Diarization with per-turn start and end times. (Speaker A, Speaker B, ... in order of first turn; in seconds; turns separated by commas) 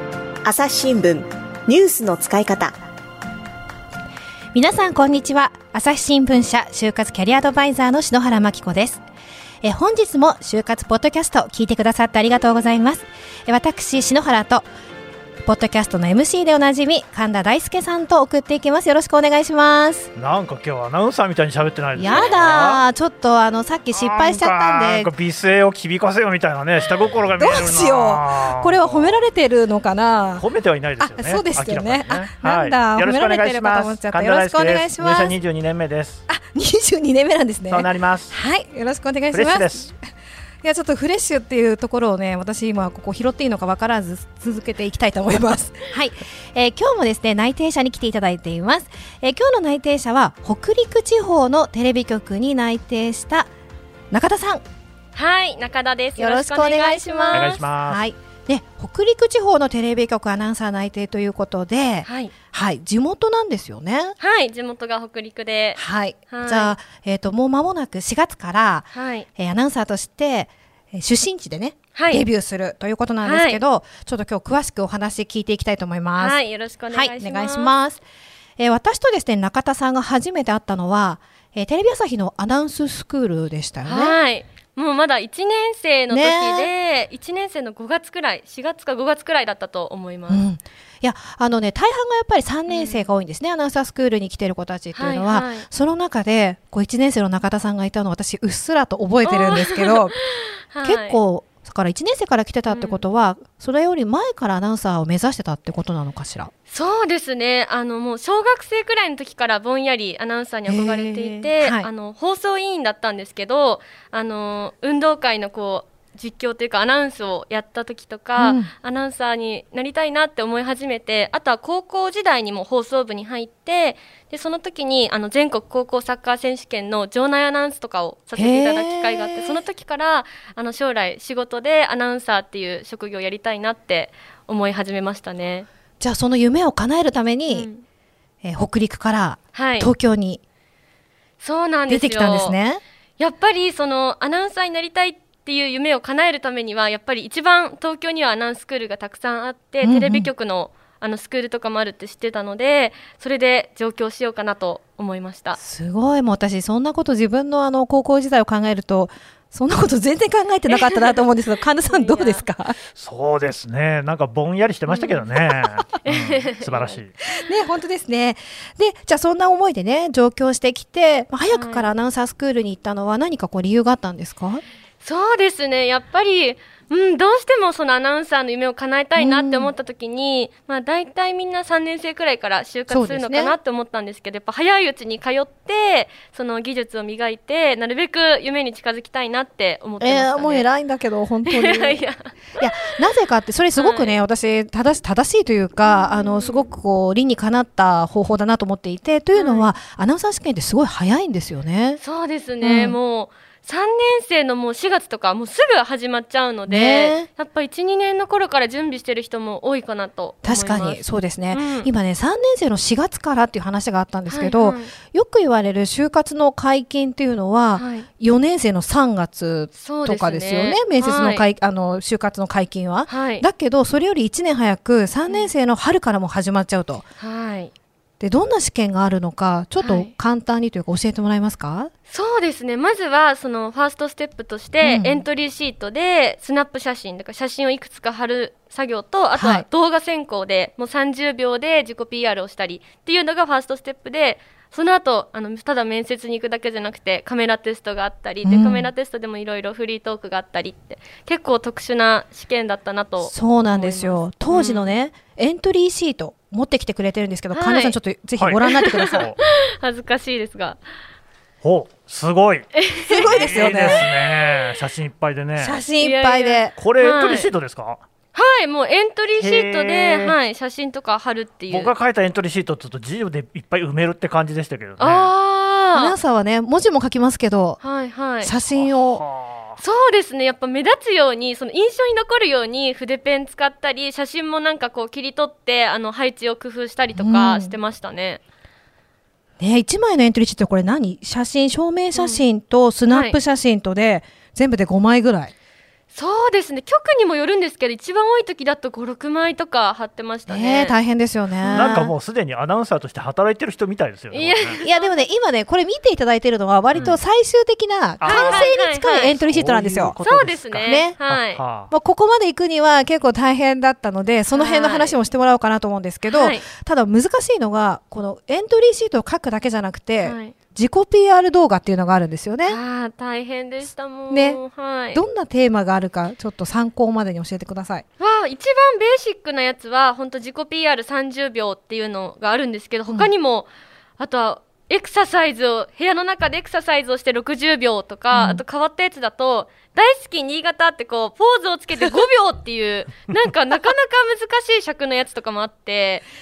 Speaker A: 0.5-2.8, Speaker B: 4.5-9.0, Speaker B: 9.6-14.7, Speaker B: 15.5-20.1, Speaker C: 20.2-22.8, Speaker B: 22.0-25.1, Speaker C: 23.9-29.2, Speaker B: 27.4-30.4, Speaker C: 30.4-36.2, Speaker B: 31.0-35.4, Speaker B: 36.3-40.0, Speaker C: 37.7-38.4, Speaker C: 39.3-39.9, Speaker B: 40.6-53.5, Speaker B: 54.1-54.6, Speaker D: 55.1-57.6, Speaker B: 56.2-64.2, Speaker C: 57.3-58.0, Speaker D: 62.0-62.3, Speaker D: 64.2-66.8, Speaker B: 65.8-78.0, Speaker D: 68.9-69.3, Speaker D: 72.0-72.2, Speaker D: 73.2-73.6, Speaker D: 76.2-77.7, Speaker B: 78.6-84.2, Speaker D: 83.8-90.4, Speaker B: 86.1-86.7, Speaker B: 90.3-100.2, Speaker D: 92.7-93.1, Speaker D: 94.9-95.7, Speaker D: 99.2-101.2, Speaker B: 100.8-106.5, Speaker D: 102.7-103.0, Speaker D: 106.7-135.7, Speaker B: 110.7-111.9, Speaker B: 118.4-118.7, Speaker B: 128.3-129.6, Speaker B: 136.0-137.7, Speaker D: 137.5-137.8, Speaker B: 138.4-140.4, Speaker D: 139.5-139.9, Speaker D: 141.4-142.6, Speaker B: 141.9-142.8, Speaker D: 143.2-155.6, Speaker B: 149.8-150.3, Speaker B: 155.6-162.8, Speaker D: 160.7-161.2, Speaker D: 161.8-162.5, Speaker C: 162.9-167.2, Speaker D: 164.9-165.2, Speaker D: 166.0-167.0, Speaker B: 167.4-174.6, Speaker D: 171.5-171.9, Speaker D: 175.0-190.7, Speaker B: 179.2-179.7, Speaker B: 182.9-183.6, Speaker B: 190.0-192.0, Speaker D: 191.5-192.9, Speaker B: 192.6-202.0, Speaker D: 193.8-194.2, Speaker D: 195.8-196.7, Speaker D: 199.3-199.7, Speaker D: 202.0-211.9, Speaker B: 202.6-203.0, Speaker B: 206.7-207.3, Speaker B: 210.4-227.0, Speaker D: 214.3-214.9, Speaker D: 217.8-218.1, Speaker D: 219.8-221.5, Speaker D: 223.1-223.5, Speaker D: 227.2-227.7, Speaker B: 228.2-231.9, Speaker D: 229.8-230.1, Speaker D: 232.1-254.9, Speaker B: 234.8-235.2, Speaker B: 239.3-239.7, Speaker B: 248.4-248.9, Speaker B: 253.2-259.2, Speaker D: 257.5-258.0, Speaker D: 258.7-260.8, Speaker C: 261.6-265.8, Speaker D: 262.7-264.1, Speaker B: 263.1-264.1, Speaker B: 265.6-266.7, Speaker D: 266.0-267.5, Speaker C: 266.8-268.0, Speaker D: 268.3-271.9, Speaker C: 269.4-270.4, Speaker C: 271.7-275.3, Speaker D: 275.0-276.1, Speaker B: 275.9-277.8, Speaker D: 277.8-278.5, Speaker B: 278.4-279.2, Speaker C: 278.7-279.8, Speaker D: 279.8-288.4, Speaker B: 287.1-287.8, Speaker B: 289.6-295.5, Speaker D: 292.2-292.4, Speaker D: 293.1-293.4, Speaker D: 296.1-301.0, Speaker B: 300.5-302.1, Speaker D: 301.6-302.0, Speaker C: 301.7-304.8, Speaker D: 304.3-305.1, Speaker B: 304.8-310.2, Speaker C: 306.9-307.2, Speaker C: 308.2-308.7, Speaker D: 308.2-309.3, Speaker C: 309.3-311.9, Speaker D: 310.2-311.6, Speaker B: 310.8-311.2, Speaker B: 311.9-322.8, Speaker D: 314.5-315.2, Speaker D: 316.3-316.7, Speaker D: 320.2-320.6, Speaker D: 322.7-325.2, Speaker B: 324.3-328.1, Speaker D: 328.2-346.3, Speaker B: 338.3-338.6